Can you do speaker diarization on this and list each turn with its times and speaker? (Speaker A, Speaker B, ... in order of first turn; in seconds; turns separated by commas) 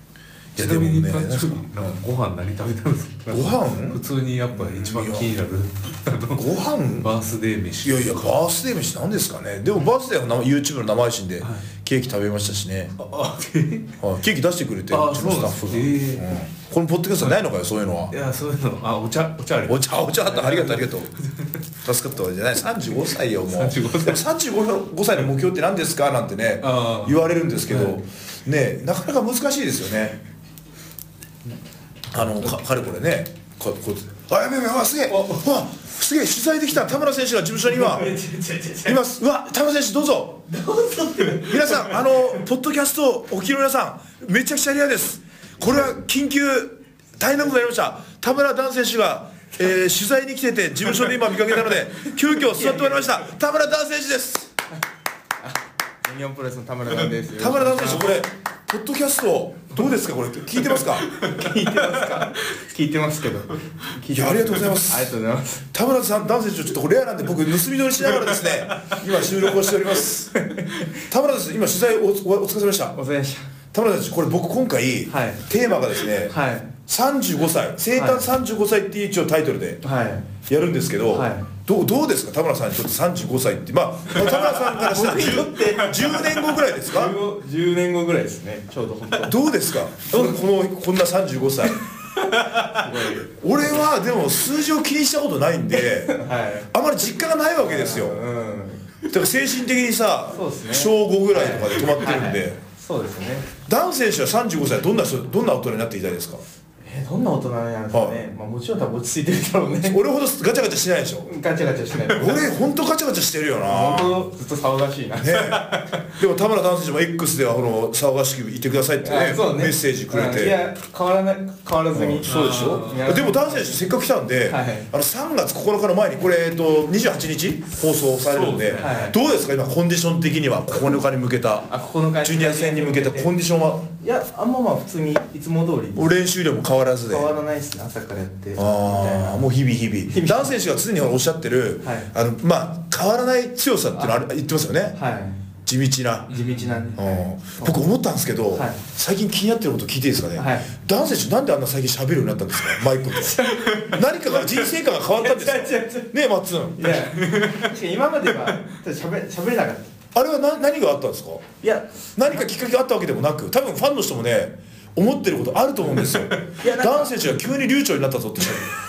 Speaker A: 0.6-2.0, Speaker B: 0.6-8.3, Speaker A: 3.3-5.3, Speaker A: 6.4-7.1, Speaker A: 7.8-12.9, Speaker B: 11.4-11.7, Speaker B: 13.0-13.9, Speaker A: 14.0-18.1, Speaker B: 14.9-16.3, Speaker B: 18.1-21.6, Speaker A: 19.7-21.1, Speaker A: 21.8-30.2, Speaker B: 23.4-24.2, Speaker B: 26.6-28.0, Speaker A: 32.1-38.2, Speaker B: 35.1-35.5, Speaker C: 37.9-39.0, Speaker A: 38.8-40.5, Speaker C: 40.6-41.5, Speaker B: 41.0-41.9, Speaker A: 41.4-54.5, Speaker C: 52.3-53.2, Speaker C: 55.4-58.2, Speaker A: 57.4-61.1, Speaker B: 60.8-62.2, Speaker C: 61.1-65.7, Speaker A: 64.1-65.1, Speaker A: 65.7-70.5, Speaker B: 68.1-69.4, Speaker C: 70.3-70.9, Speaker A: 71.0-73.0, Speaker C: 72.9-73.5, Speaker A: 73.7-79.8, Speaker C: 75.1-75.5, Speaker C: 76.2-76.7, Speaker C: 77.9-78.3, Speaker C: 79.8-80.3, Speaker A: 80.5-87.2, Speaker C: 81.1-81.5, Speaker C: 84.2-89.4, Speaker A: 89.2-91.8, Speaker C: 90.0-90.4, Speaker B: 92.4-92.7, Speaker C: 92.4-93.8, Speaker A: 93.2-96.2, Speaker C: 96.0-96.7, Speaker A: 96.7-98.2, Speaker C: 97.6-98.9, Speaker A: 99.1-102.6, Speaker C: 100.3-103.5, Speaker A: 103.7-106.4, Speaker C: 106.8-110.0, Speaker A: 107.9-108.2, Speaker A: 109.8-111.3, Speaker C: 111.2-112.5, Speaker A: 112.1-114.2, Speaker C: 113.6-116.0, Speaker A: 115.2-120.6, Speaker C: 119.0-123.8, Speaker A: 121.9-131.7, Speaker B: 122.3-123.1, Speaker C: 124.5-124.9, Speaker B: 128.2-129.1, Speaker C: 128.8-129.2, Speaker C: 131.7-133.3, Speaker A: 132.2-133.9, Speaker C: 134.0-136.1, Speaker A: 135.9-137.3, Speaker C: 137.1-139.4, Speaker A: 138.6-145.0, Speaker C: 140.1-140.5, Speaker C: 141.8-142.1, Speaker C: 143.9-144.2, Speaker C: 144.9-145.4, Speaker A: 145.7-146.3, Speaker B: 146.3-147.0, Speaker C: 146.3-147.8, Speaker A: 146.9-157.0, Speaker C: 148.5-148.8, Speaker C: 150.3-150.7, Speaker C: 153.1-156.1, Speaker C: 156.7-159.9, Speaker B: 157.2-157.7, Speaker A: 160.1-161.4, Speaker C: 161.6-162.4, Speaker A: 162.2-168.7, Speaker B: 166.0-166.4, Speaker C: 166.6-167.2